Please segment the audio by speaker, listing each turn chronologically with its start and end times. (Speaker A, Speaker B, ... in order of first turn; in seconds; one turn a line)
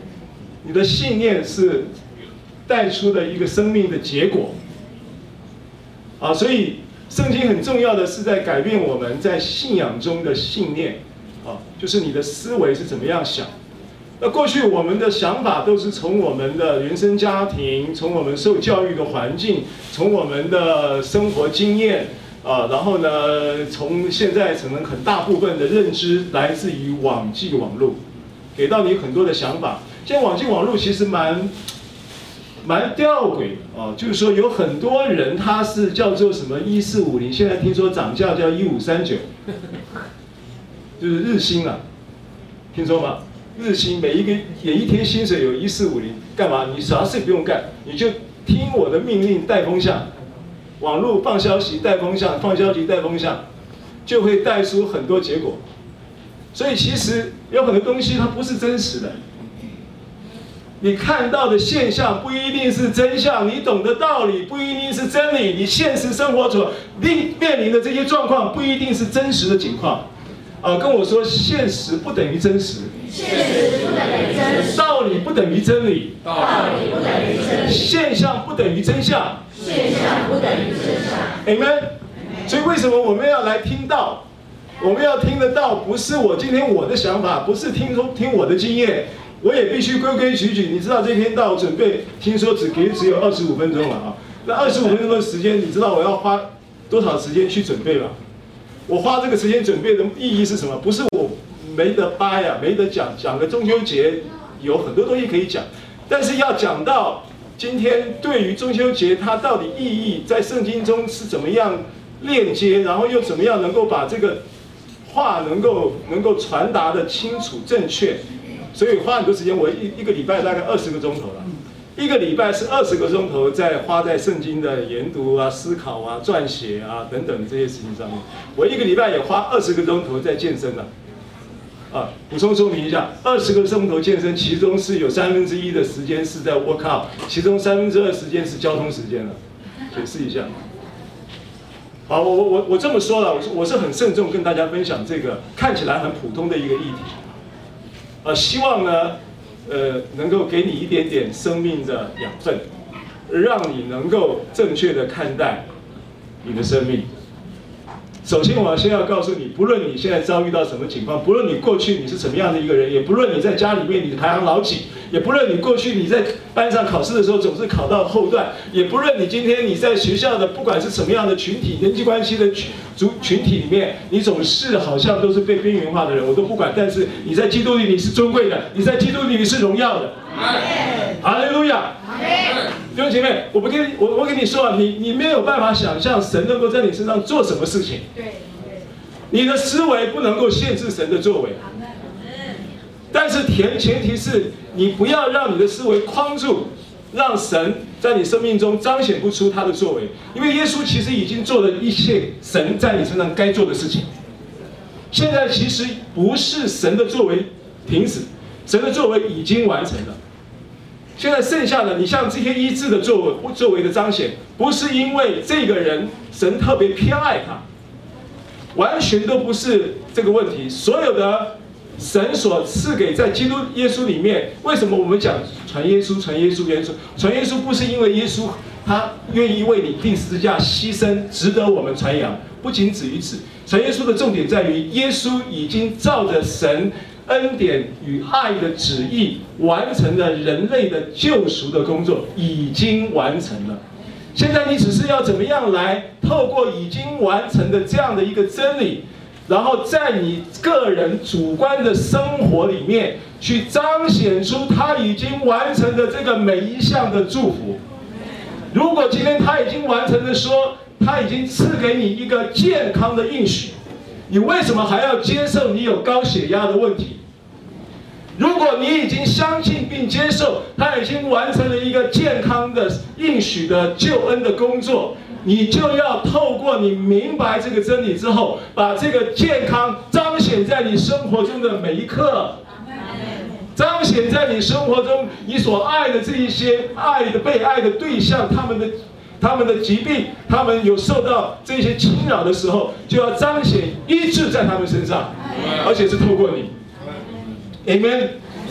Speaker A: 0.6-1.9
Speaker A: 2.7-4.6
Speaker A: 6.2-13.5
Speaker A: 14.2-28.0
Speaker A: 28.6-31.5
Speaker A: 32.6-39.3
Speaker A: 41.0-41.8
Speaker A: 42.7-50.1
Speaker A: 50.8-53.4
Speaker A: 54.1-55.6
Speaker A: 56.5-59.2
Speaker A: 60.8-70.1
Speaker A: 70.6-72.9
Speaker B: 73.1-74.7
Speaker A: 74.7-76.3
Speaker B: 76.5-77.6
Speaker A: 77.6-79.4
Speaker B: 79.6-81.3
Speaker A: 81.4-81.9
Speaker A: 82.5-84.2
Speaker A: 84.8-98.2
Speaker A: 98.9-114.4
Speaker A: 115.1-118.2
Speaker A: 118.7-130.9
Speaker A: 131.9-139.4
Speaker A: 139.9-140.6
Speaker A: 142.1-147.2
Speaker A: 148.2-152.7
Speaker A: 153.3-155.7
Speaker A: 156.4-157.1
Speaker A: 158.2-180.2
Speaker A: 181.2-182.0
Speaker B: 182.1-182.6
Speaker A: 182.9-188.0
Speaker B: 188.2-188.8
Speaker A: 189.3-191.6
Speaker A: 193.1-204.1
Speaker A: 205.1-210.2
Speaker A: 211.2-217.6
Speaker A: 218.7-243.8
Speaker A: 244.3-257.8
Speaker A: 258.7-263.8
Speaker A: 264.3-267.2
Speaker A: 268.4-282.6
Speaker A: 283.8-296.7
Speaker A: 297.9-298.4